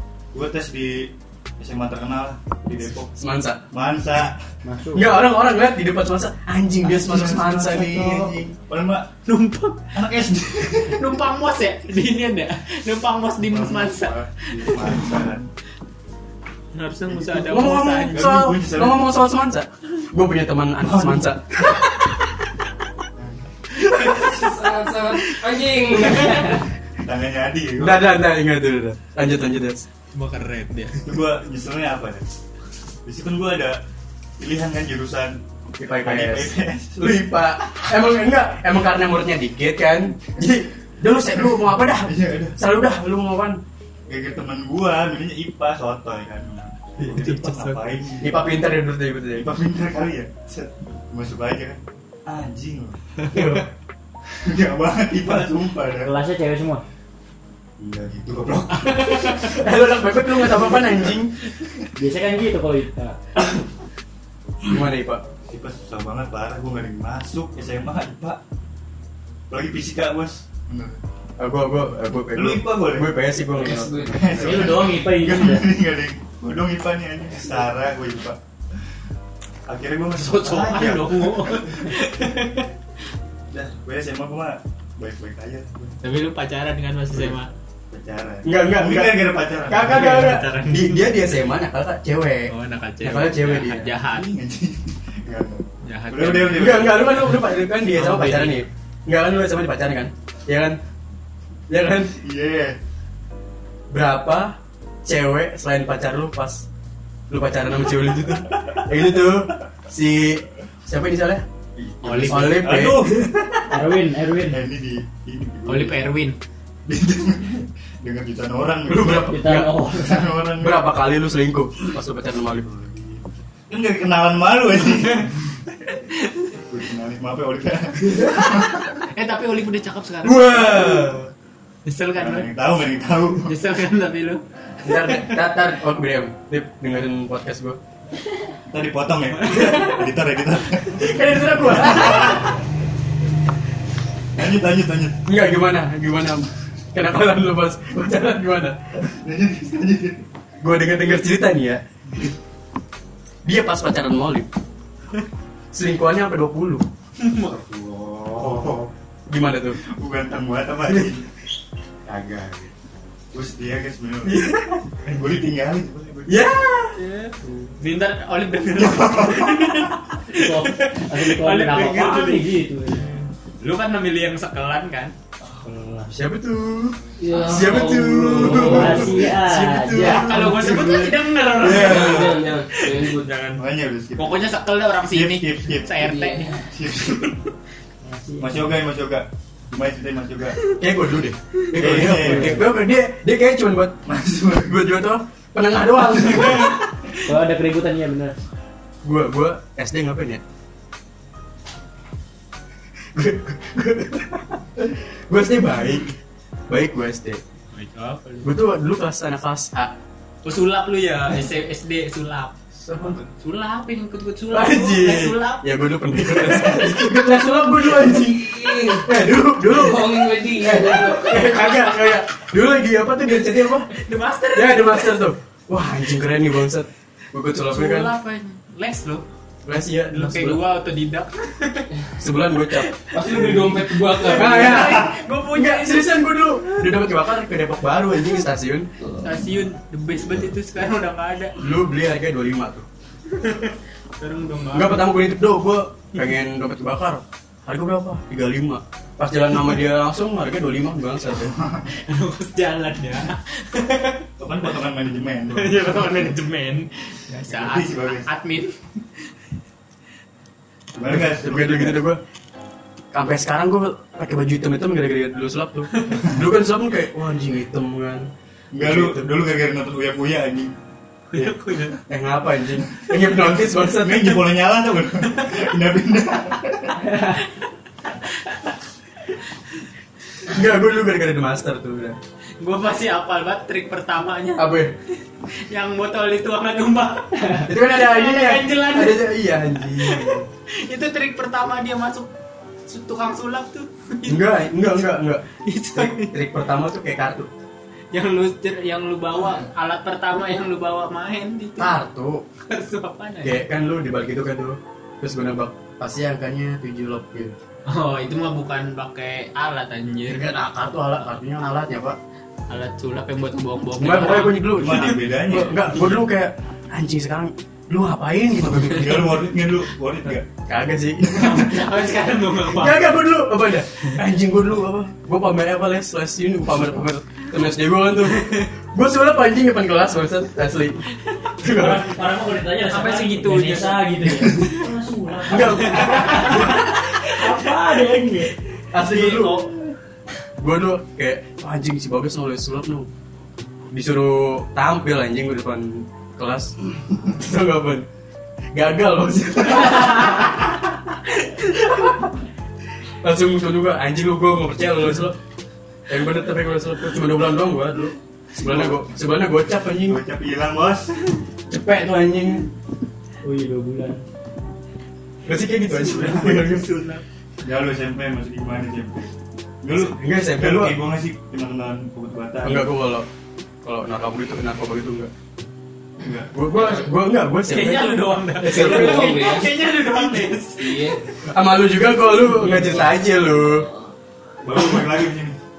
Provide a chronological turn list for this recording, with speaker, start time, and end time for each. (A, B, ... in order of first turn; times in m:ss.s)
0:00.3-0:03.2 A
0:03.2-0:03.6 B
0:03.7-0:04.4 A
0:04.6-0:05.2 C
0:05.0-0:08.5 B
0:06.8-0:09.1 A
0:09.3-0:10.0 D
0:09.9-0:11.2 A
0:10.7-0:15.2 D
0:13.4-0:15.5 A
0:16.7-0:18.3 D
0:17.1-0:19.1 A
0:17.5-0:22.0 B
0:20.8-0:21.4 A
0:23.2-0:23.5 A
0:23.8-0:26.7 E
0:27.0-0:28.1 A
0:27.8-0:29.8 B
0:30.1-0:31.0 D
0:31.0-0:32.3 A
0:33.0-0:33.8 A
0:34.4-0:35.4 A
0:35.8-0:43.6 B
0:36.0-0:37.3 A
0:41.9-0:42.6 A
0:44.1-0:48.5 A
0:47.0-0:47.5 B
0:47.2-0:47.8 D
0:48.2-0:49.5 B
0:49.3-0:53.0 A
0:53.3-0:53.7 B
0:54.3-0:56.1 A
0:56.0-0:56.8 C
0:57.8-0:59.5 A
0:58.8-1:01.3 B
1:02.0-1:03.2 C
1:04.6-1:05.2 B
1:05.4-1:08.4 A
1:09.5-1:11.0 A
1:11.4-1:14.7 B
1:12.3-1:13.2 A
1:13.5-1:14.7 E
1:14.1-1:18.4 A
1:14.4-1:15.7 C
1:19.7-1:21.8 A
1:20.2-1:22.7 D
1:23.5-1:26.0 A
1:26.0-1:27.5 D
1:27.9-1:30.2 A
1:28.4-1:33.9 B
1:29.8-1:31.2 D
1:32.5-1:34.3 D
1:34.0-1:37.3 A
1:35.8-1:37.0 D
1:36.5-1:40.8 B
1:37.9-1:38.6 D
1:41.7-1:42.2 B
1:42.2-1:42.8 A
1:43.9-1:46.6 B
1:47.3-1:51.4 B
1:51.8-1:53.8 A
1:52.0-1:52.7 D
1:52.2-1:53.2 B
1:53.7-1:54.6 C
1:54.5-1:56.1 A
1:55.7-1:56.4 D
1:56.9-1:59.4 A
1:58.9-1:59.7 B
1:59.2-2:00.3 C
1:59.9-2:01.0 A
2:00.6-2:02.7 B
2:02.3-2:05.6 A
2:05.9-2:06.5 D
2:06.7-2:08.8 A
2:09.0-2:11.0 D
2:10.2-2:11.3 B
2:11.8-2:12.5 D
2:12.2-2:13.5 A
2:13.4-2:15.4 D
2:14.8-2:17.8 B
2:18.7-2:22.5 A
2:19.5-2:19.9 D
2:20.9-2:22.6 B
2:24.4-2:25.2 A
2:25.3-2:28.8 B
2:29.0-2:30.2 A
2:30.6-2:31.8 B
2:33.4-2:34.5 B
2:35.7-2:36.9 B
2:37.2-2:37.5 D
2:37.4-2:38.9 A
2:39.3-2:39.8 B
2:39.8-2:41.3 A
2:40.9-2:41.1 B
2:42.1-2:42.8 A
2:43.3-2:46.5 A
2:44.2-2:44.8 B
2:46.3-2:47.0 B
2:47.0-2:52.5 D
2:48.7-2:49.8 A
2:50.3-2:53.1 C
2:53.6-2:55.1 D
2:55.6-2:56.1 C
2:56.1-3:00.6 B
2:57.2-2:59.4 E
2:58.6-3:00.3 C
3:00.0-3:03.6 D
3:00.3-3:02.4 A
3:01.6-3:03.5 E
3:03.6-3:04.5 A
3:04.2-3:06.6 D
3:05.0-3:06.2 A
3:06.0-3:06.6 E
3:06.7-3:07.4 A
3:08.0-3:08.7 C
3:08.4-3:10.6 A
3:10.8-3:14.0 B
3:11.7-3:12.7 A
3:12.0-3:12.6 C
3:14.1-3:14.8 A
3:14.6-3:16.8 B
3:17.2-3:18.4 C
3:19.0-3:20.4 B
3:23.1-3:26.1 B
3:26.7-3:27.4 B
3:27.7-3:28.5 D
3:28.4-3:29.9 B
3:30.4-3:35.6 D
3:32.8-3:33.2 B
3:34.5-3:43.9 B
3:36.2-3:37.0 D
3:37.9-3:41.8 E
3:43.9-3:45.2 D
3:44.5-3:48.1 B
3:47.6-3:49.2 D
3:49.6-3:50.6 B
3:50.1-3:51.9 D
3:52.2-3:53.5 B
3:52.7-3:56.8 D
3:53.1-3:55.1 E
3:54.2-3:58.9 B
3:59.0-3:59.4 E
3:59.2-4:01.6 D
4:01.6-4:02.9 B
4:03.3-4:05.1 D
4:04.7-4:11.6 B
4:11.4-4:11.9 A
4:11.9-4:14.3 D
4:14.4-4:16.0 A
4:15.5-4:18.8 D
4:17.5-4:18.3 A
4:21.0-4:22.0 A
4:21.1-4:22.2 B
4:23.1-4:29.3 B
4:28.7-4:30.7 A
4:31.3-4:32.0 D
4:32.1-4:34.4 B
4:33.0-4:37.1 A
4:40.5-4:42.2 B
4:42.6-4:44.7 D
4:44.6-4:44.9 B
4:45.4-4:52.3 D
4:47.6-4:50.5 B
4:52.9-4:55.0 D
4:54.3-4:57.5 B
4:55.6-4:56.4 D
4:58.1-5:02.0 D
5:01.8-5:02.4 B
5:02.7-5:03.6 D
5:03.4-5:07.6 B
5:07.9-5:10.7 D
5:10.3-5:12.2 B
5:12.7-5:15.2 D
5:14.0-5:19.4 B
5:14.7-5:16.2 A
5:18.8-5:20.5 A
5:20.6-5:21.4 B
5:21.2-5:21.6 A
5:21.4-5:23.2 D
5:22.7-5:31.0 B
5:31.6-5:32.2 B
5:31.7-5:38.5 C
5:32.9-5:34.1 D
5:35.5-5:37.3 B
5:35.6-5:36.8 D
5:38.9-5:39.7 B
5:39.1-5:39.5 D
5:40.6-5:43.1 B
5:43.9-5:48.1 B
5:48.7-5:52.3 B
5:53.2-5:55.4 B
5:56.1-6:00.2 B
5:58.6-5:59.0 A
6:00.1-6:01.2 A
6:01.7-6:02.7 B
6:03.4-6:04.2 C
6:05.5-6:06.9 B
6:05.9-6:06.8 A
6:06.7-6:07.2 D
6:07.6-6:12.9 A
6:10.0-6:11.0 B
6:12.6-6:13.3 B
6:13.8-6:15.3 B
6:16.2-6:16.5 A
6:16.5-6:19.5 B
6:17.7-6:21.2 D
6:18.6-6:19.7 E
6:20.3-6:21.2 E
6:21.5-6:23.9 B
6:22.8-6:24.1 E
6:24.6-6:25.6 A